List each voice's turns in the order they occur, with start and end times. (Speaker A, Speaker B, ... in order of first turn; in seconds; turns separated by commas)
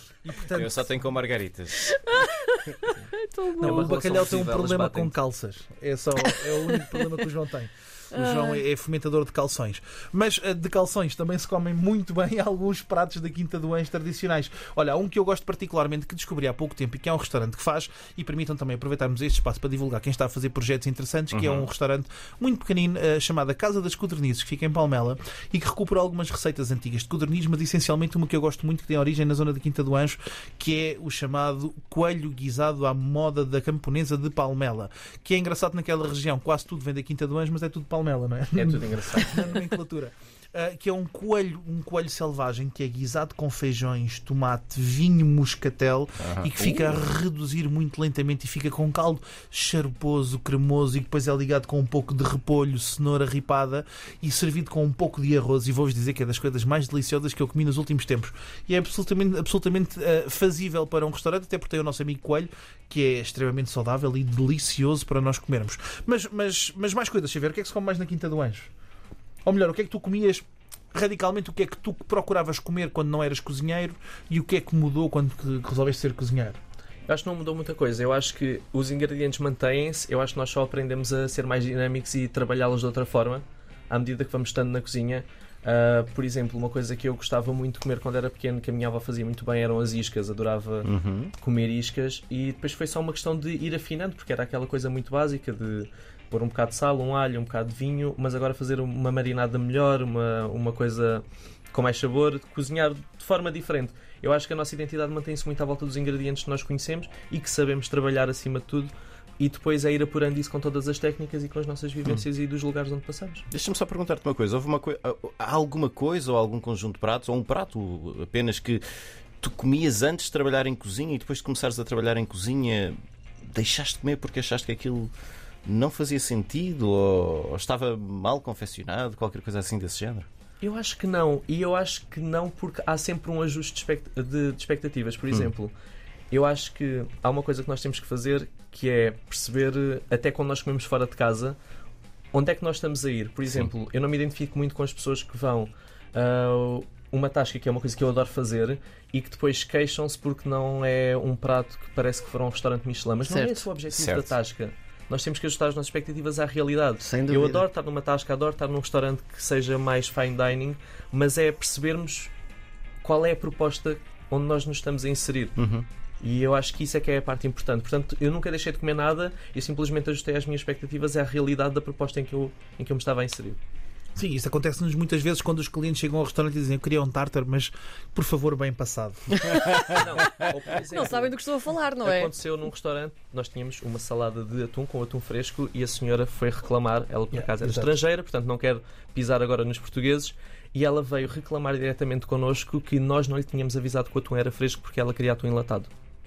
Speaker A: 0.2-0.9, Speaker B: 0.5-1.9, Speaker C: 1.8-3.9, Speaker A: 3.6-68.7, Speaker D: 3.6-5.2, Speaker C: 6.2-6.9, Speaker C: 8.1-8.6, Speaker B: 21.3-21.7, Speaker D: 38.5-39.5, Speaker B: 46.2-47.0, Speaker A: 69.5-76.6, Speaker D: 77.1-113.5, Speaker B: 90.8-91.3, Speaker B: 113.5-118.8, Speaker B: 119.4-125.1, Speaker B: 125.7-130.3, Speaker D: 130.6-135.7, Speaker D: 136.3-141.6, Speaker D: 142.3-162.3, Speaker C: 153.2-153.7, Speaker B: 153.9-154.3, Speaker C: 157.0-157.6, Speaker D: 163.0-165.6, Speaker B: 165.6-165.9, Speaker D: 166.2-173.6, Speaker A: 174.2-179.6, Speaker D: 179.8-181.4, Speaker C: 180.9-182.3, Speaker D: 182.0-195.9, Speaker A: 187.3-187.9